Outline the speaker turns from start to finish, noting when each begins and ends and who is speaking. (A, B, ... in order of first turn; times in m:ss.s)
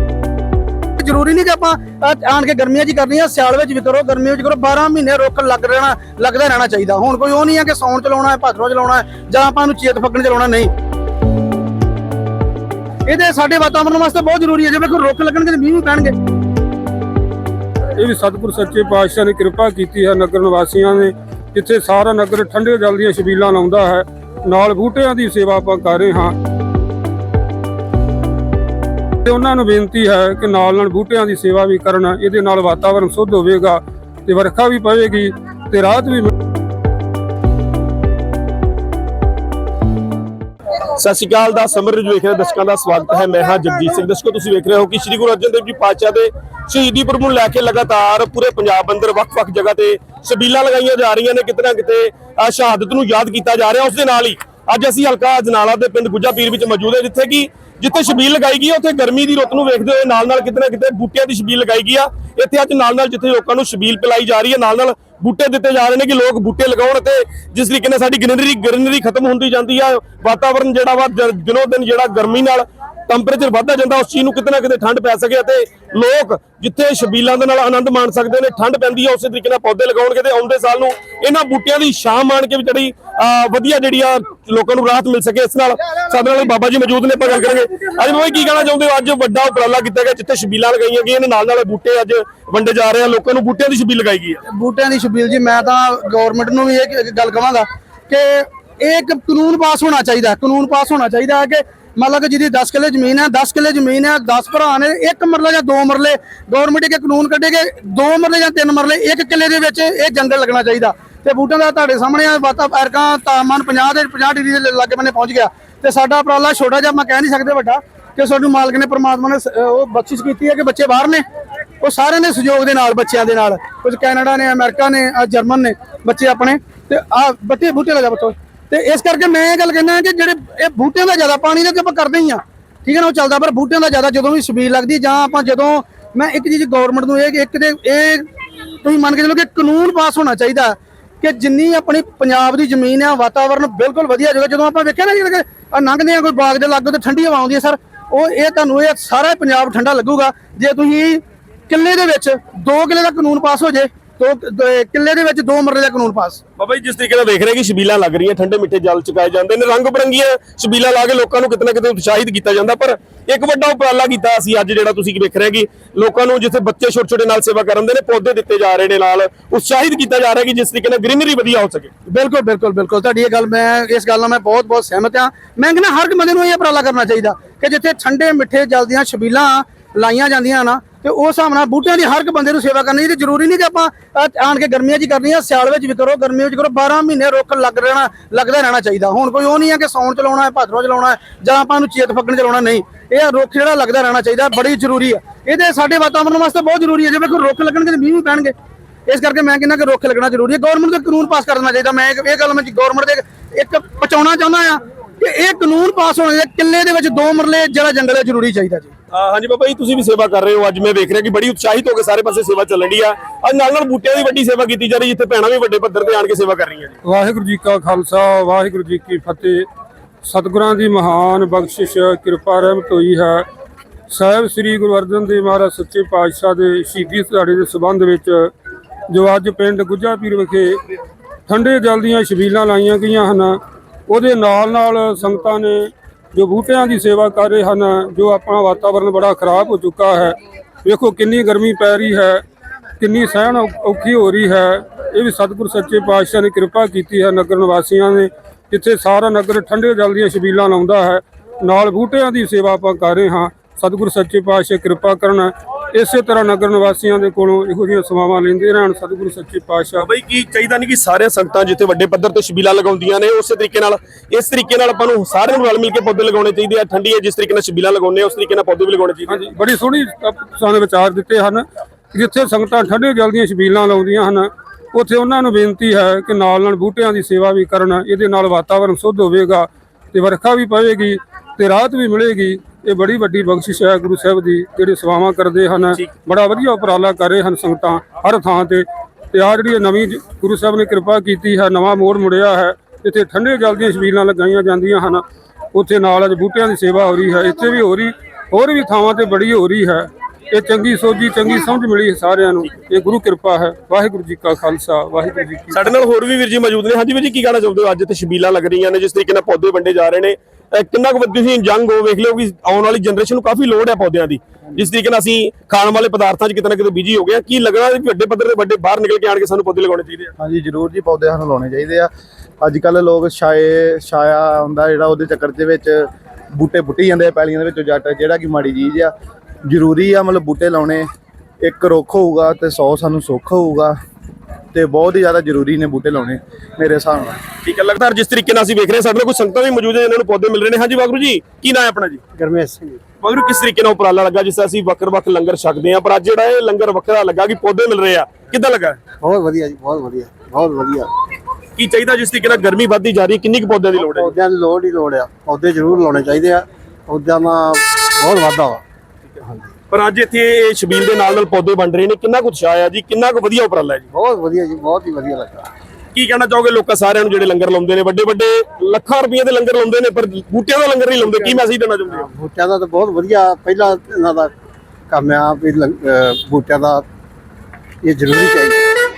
0:01.0-0:10.7 A
0:13.1-0:16.2 A
0:18.0-0:26.4 B
0:29.2-0:36.3 B
0:40.8-1:34.4 C
1:34.5-2:01.2 A
2:01.8-2:36.4 A
2:36.6-2:51.9 C
2:52.1-3:18.5 A
3:19.1-3:28.9 A
3:29.1-3:37.0 C
3:37.0-3:39.6 B
3:40.2-3:43.4 B
3:44.1-3:48.5 B
3:49.1-3:50.8 B
3:51.5-4:02.4 B
4:03.0-4:20.0 B
4:20.0-4:29.4 C
4:29.3-5:05.9 B
5:05.7-5:20.3 C
5:20.4-5:22.1 D
5:22.6-5:29.1 D
5:29.7-5:31.1 D
5:31.6-5:34.0 D
5:34.7-5:37.4 D
5:37.6-5:42.2 C
5:42.4-5:43.0 E
5:43.2-5:49.0 C
5:49.2-5:51.1 E
5:51.8-5:54.3 C
5:54.0-5:58.8 E
5:59.4-5:59.7 E
5:59.9-6:04.1 C
6:04.1-6:05.7 E
6:06.1-6:12.3 C
6:11.2-6:14.5 E
6:15.1-6:17.1 E
6:18.0-6:19.1 E